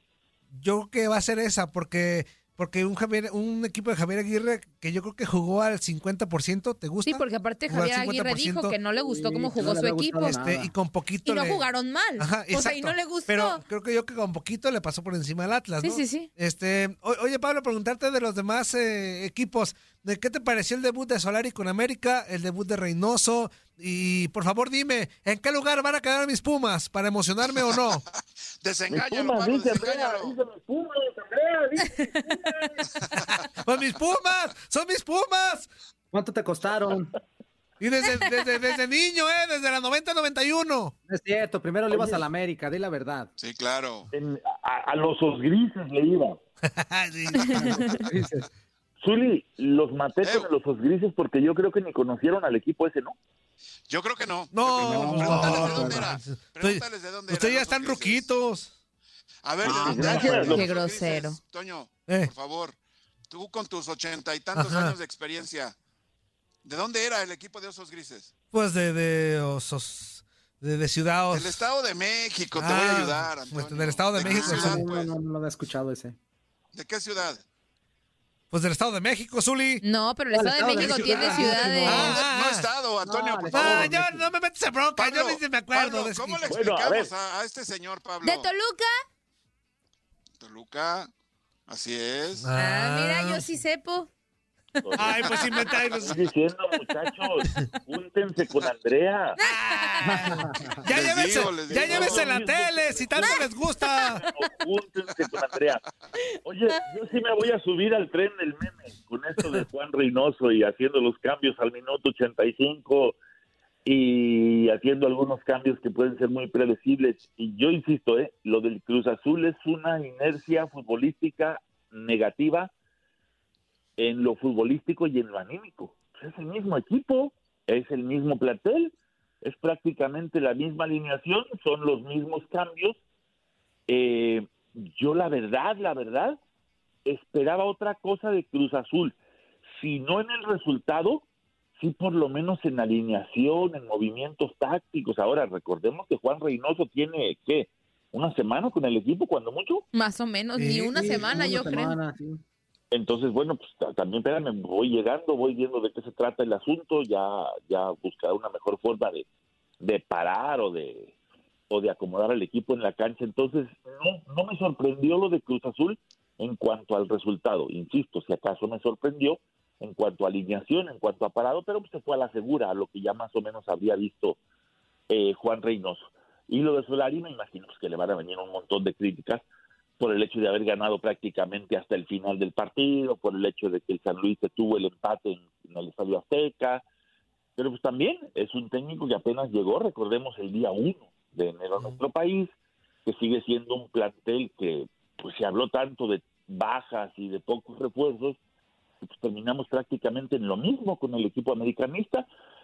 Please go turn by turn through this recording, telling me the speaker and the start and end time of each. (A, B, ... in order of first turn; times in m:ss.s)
0:00.5-0:08.8 A
0:07.0-0:10.4 B
0:08.9-0:10.8 C
0:10.2-0:11.7 A
0:11.2-0:13.6 B
0:12.2-0:28.0 A
0:15.8-0:16.3 B
0:28.1-0:30.4 D
0:28.9-0:32.8 E
0:31.9-0:32.5 B
0:33.2-0:35.7 A
0:36.1-0:37.1 C
0:37.8-0:40.9 A
0:41.1-0:43.3 C
0:41.9-0:42.2 E
0:43.4-0:44.1 D
0:44.1-0:46.4 E
0:46.6-0:48.0 A
0:47.4-0:48.0 B
0:48.1-0:48.4 C
0:49.0-0:53.2 E
0:50.2-0:50.5 D
0:53.9-0:58.3 D
0:54.5-0:58.7 A
0:55.1-0:55.9 E
0:59.4-1:02.8 D
0:59.6-1:00.7 E
0:59.8-1:01.4 B
0:59.8-1:00.3 A
1:03.3-1:05.8 D
1:04.5-1:05.0 A
1:06.6-1:08.3 D
1:08.5-1:11.6 A
1:11.3-1:15.1 D
1:12.6-1:14.9 A
1:14.2-1:16.2 C
1:16.7-1:17.4 D
1:18.5-1:19.8 A
1:19.8-1:22.1 B
1:20.3-1:22.2 C
1:20.8-1:22.7 A
1:22.0-1:23.9 D
1:23.0-1:24.3 C
1:23.5-1:26.6 A
1:25.0-1:28.5 D
1:26.4-1:27.1 E
1:28.2-1:28.9 B
1:30.4-1:31.1 D
1:31.7-1:32.5 D
1:32.4-1:33.5 A
1:32.5-1:34.1 B
1:34.8-1:35.9 B
1:34.8-1:39.4 E
1:35.0-1:36.2 A
1:39.4-1:40.3 B
1:39.4-1:44.2 A
1:40.2-1:40.4 C
1:40.9-1:42.4 D
1:41.7-1:43.6 E
1:43.2-1:44.3 B
1:44.2-1:45.8 E
1:46.4-1:53.2 E
1:53.8-2:02.7 E
2:04.0-2:13.0 E
2:13.9-2:16.4 E
2:17.0-2:19.1 E
2:19.8-2:21.2 E
2:21.8-2:29.8 E
2:29.9-2:32.0 B
2:30.6-2:31.0 A
2:30.9-2:32.4 C
2:32.9-2:39.2 E
2:39.8-2:41.1 E
2:41.7-2:54.4 E
2:55.1-2:59.4 E
3:00.0-3:06.8 E
3:07.6-3:12.5 E
3:13.0-3:18.4 E
3:19.1-3:22.2 E